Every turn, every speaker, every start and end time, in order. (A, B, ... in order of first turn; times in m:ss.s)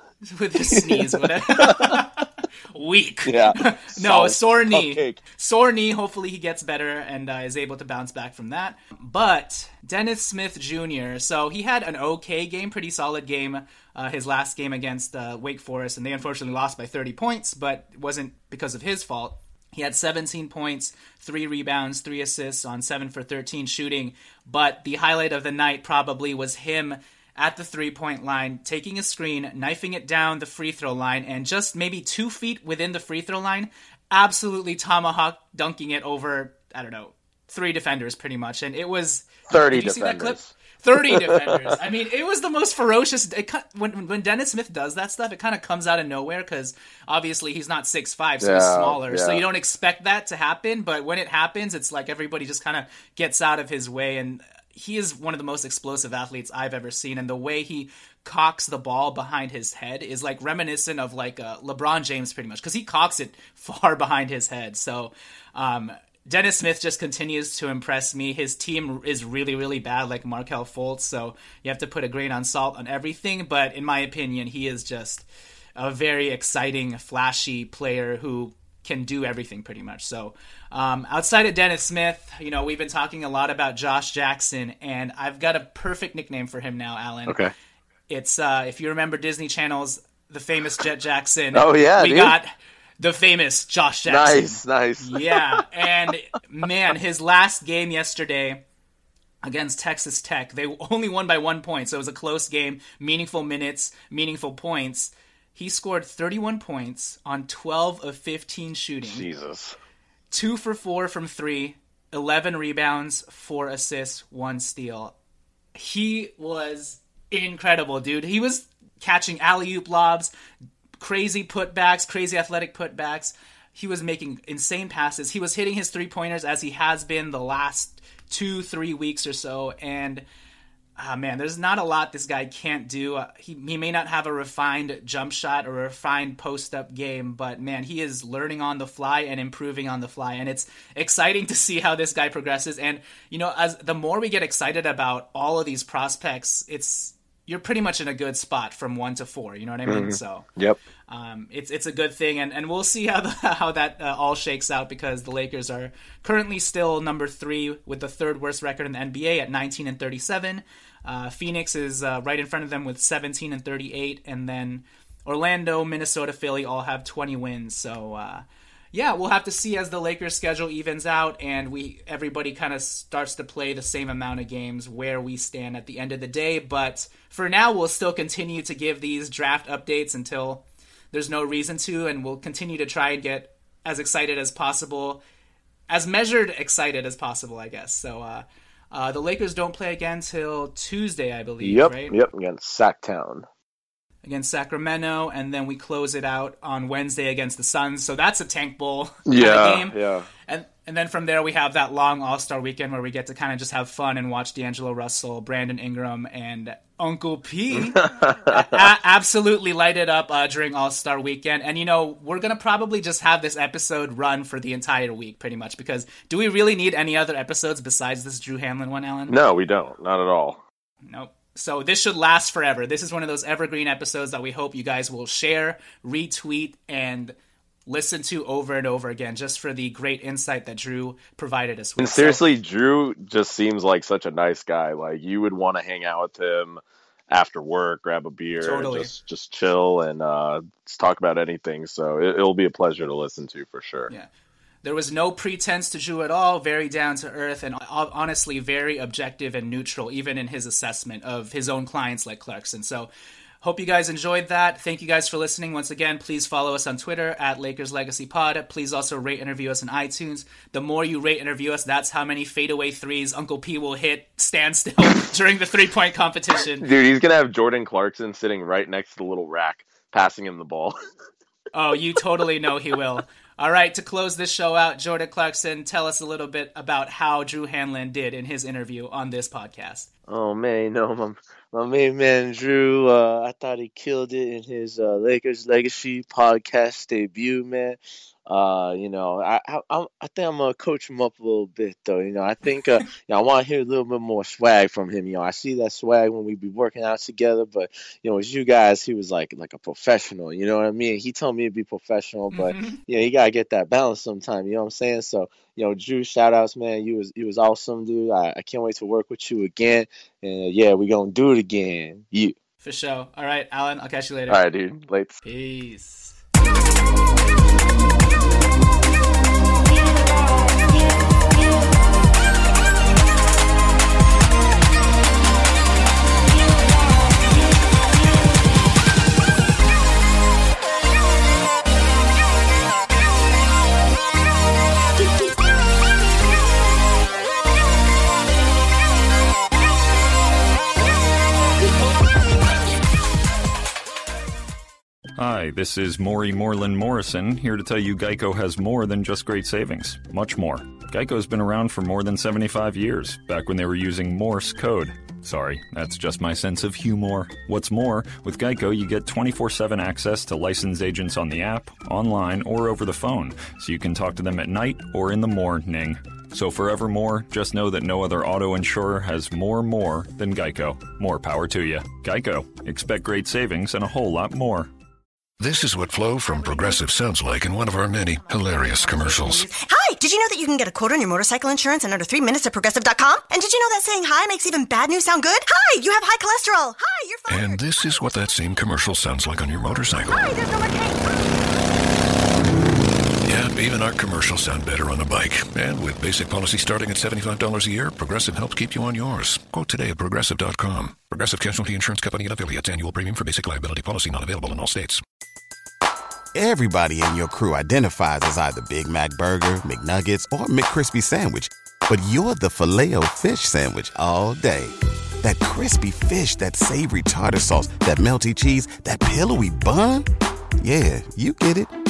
0:00.3-1:27.4 A
0:00.7-0:02.0 B
0:03.2-0:05.2 B
0:39.5-0:41.8 B
0:48.4-0:49.4 B
1:27.3-1:27.5 B
1:28.1-1:38.6 A
1:31.6-1:32.3 B
1:34.1-1:34.6 C
1:34.6-1:35.4 B
1:39.4-1:49.3 A
1:49.0-1:49.8 B
1:50.3-1:55.2 A
1:55.8-2:00.3 A
2:01.0-2:10.2 A
2:11.0-2:30.5 A
2:29.9-2:30.8 B
2:31.1-3:05.2 A
3:05.9-3:12.2 A
3:11.7-3:13.4 B
3:12.7-3:13.2 C
3:14.2-3:20.0 A
3:19.3-3:20.3 B
3:20.5-3:39.4 A
3:27.8-3:28.8 B
3:39.3-3:40.6 B
3:41.1-3:47.4 A
3:47.9-3:52.5 A
3:52.0-4:04.1 B
3:58.6-3:59.1 A
4:04.8-4:13.1 A
4:13.6-4:26.9 A
4:26.8-4:31.0 B
4:31.7-4:40.1 A
4:40.3-5:12.5 C
5:02.5-5:03.0 A
5:12.8-5:14.6 A
5:14.5-5:15.4 B
5:15.4-5:16.4 A
5:45.4-6:14.9 D
6:15.6-6:19.7 E
6:18.6-6:27.8 F
6:27.5-6:30.6 E
6:30.3-6:31.4 F
6:33.4-6:45.2 E
6:46.5-7:00.3 G
7:00.8-7:01.9 G